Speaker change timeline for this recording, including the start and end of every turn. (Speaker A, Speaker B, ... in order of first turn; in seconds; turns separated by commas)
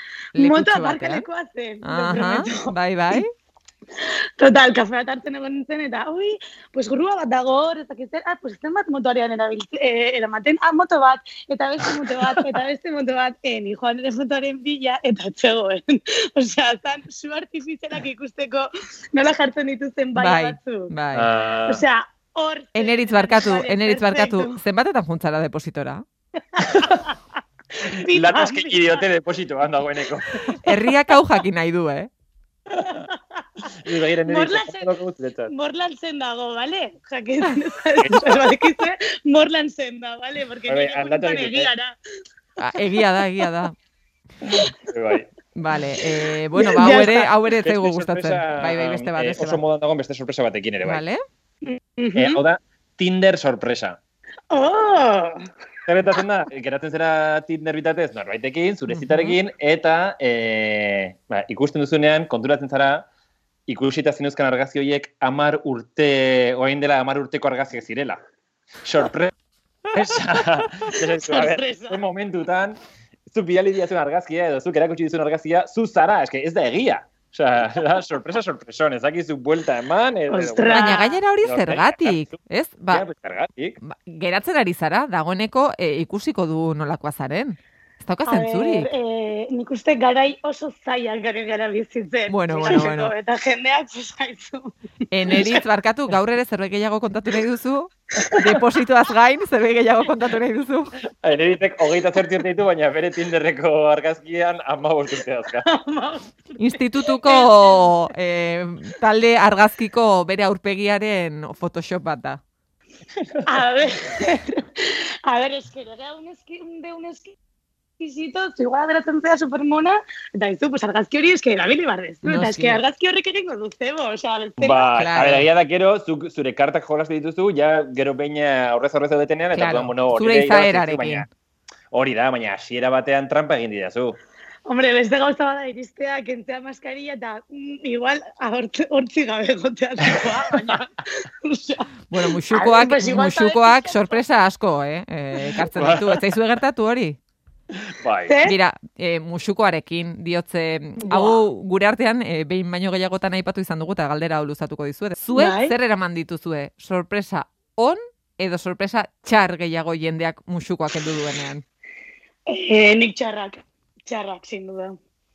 Speaker A: 0.3-1.2, Speaker B: 0.3-3.2, Speaker A: 1.8-3.3, Speaker B: 4.4-20.9, Speaker A: 20.1-21.3, Speaker C: 21.1-21.8, Speaker B: 21.6-24.6, Speaker A: 22.7-26.0, Speaker B: 26.5-27.1, Speaker C: 26.7-27.0, Speaker B: 27.9-29.1, Speaker C: 28.1-30.4, Speaker A: 30.6-32.1, Speaker B: 32.8-33.6, Speaker C: 33.7-35.5, Speaker B: 34.2-34.9, Speaker B: 35.5-42.0, Speaker C: 38.0-38.5, Speaker C: 40.7-41.7, Speaker A: 42.6-43.7, Speaker C: 44.9-45.3, Speaker A: 45.5-49.6, Speaker B: 46.5-47.3, Speaker C: 47.6-51.0, Speaker A: 50.8-51.2, Speaker B: 51.6-52.4, Speaker C: 52.1-54.0, Speaker B: 54.5-55.4, Speaker C: 55.9-63.1, Speaker A: 58.9-59.4, Speaker C: 63.7-68.2, Speaker C: 68.8-69.3, Speaker C: 69.9-72.8, Speaker B: 70.9-72.0, Speaker C: 73.3-82.2, Speaker B: 80.3-81.2, Speaker A: 80.7-83.0, Speaker C: 82.9-83.8, Speaker A: 83.8-88.9, Speaker B: 88.3-94.7, Speaker A: 92.3-93.1, Speaker A: 95.1-100.9, Speaker B: 95.3-95.6, Speaker C: 101.2-105.7, Speaker B: 105.6-107.9, Speaker A: 106.6-112.4, Speaker B: 113.5-117.4, Speaker B: 118.0-124.9, Speaker A: 122.2-122.8, Speaker C: 124.6-131.3, Speaker A: 124.9-125.5, Speaker A: 129.5-131.3, Speaker C: 131.9-134.2, Speaker B: 134.7-141.8, Speaker C: 140.2-140.8, Speaker A: 142.1-147.2, Speaker B: 142.5-144.2, Speaker C: 145.7-146.2, Speaker C: 147.9-148.3, Speaker B: 148.2-148.6, Speaker A: 148.4-161.6, Speaker B: 151.0-151.4, Speaker B: 155.3-155.7, Speaker B: 162.5-165.0